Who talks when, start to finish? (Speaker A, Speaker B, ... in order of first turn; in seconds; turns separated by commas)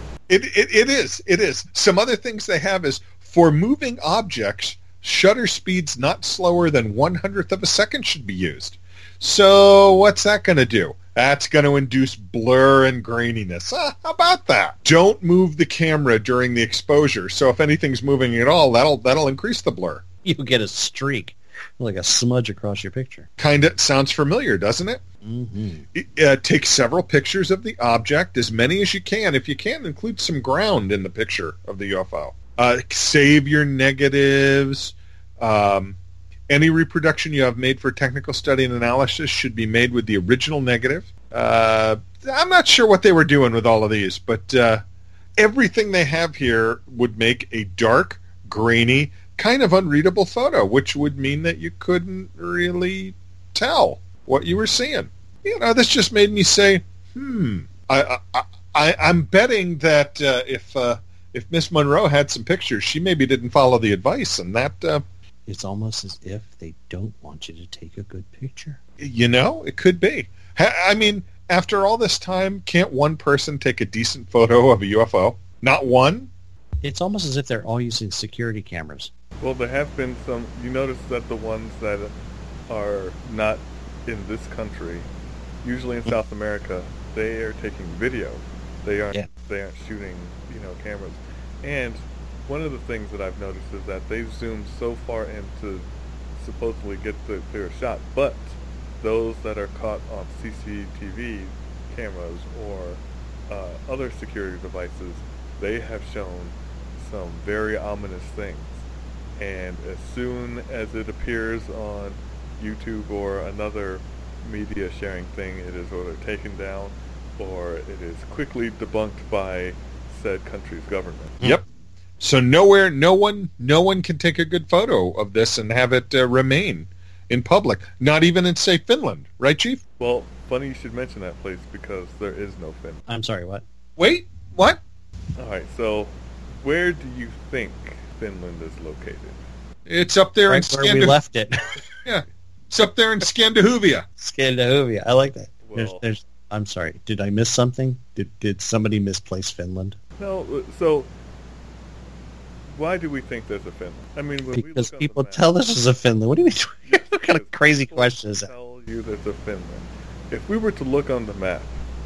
Speaker A: 0.3-20.1, Speaker B: 20.2-23.3, Speaker A: 23.4-25.0, Speaker B: 25.2-25.9, Speaker A: 25.9-36.0, Speaker A: 36.5-44.8, Speaker A: 45.4-65.0, Speaker B: 65.5-68.8, Speaker A: 69.0-76.3, Speaker B: 76.8-79.1, Speaker C: 79.4-82.1, Speaker C: 82.7-85.1, Speaker C: 85.6-108.8, Speaker C: 109.4-121.4, Speaker A: 122.2-129.8, Speaker C: 130.0-133.1, Speaker B: 133.1-133.6, Speaker A: 134.0-134.8, Speaker C: 135.4-139.4, Speaker A: 139.9-141.2, Speaker B: 140.5-141.7, Speaker A: 142.1-144.1, Speaker B: 144.2-150.0, Speaker C: 145.6-146.1, Speaker C: 150.2-151.1, Speaker C: 152.7-155.5, Speaker B: 154.5-158.5, Speaker C: 156.9-161.8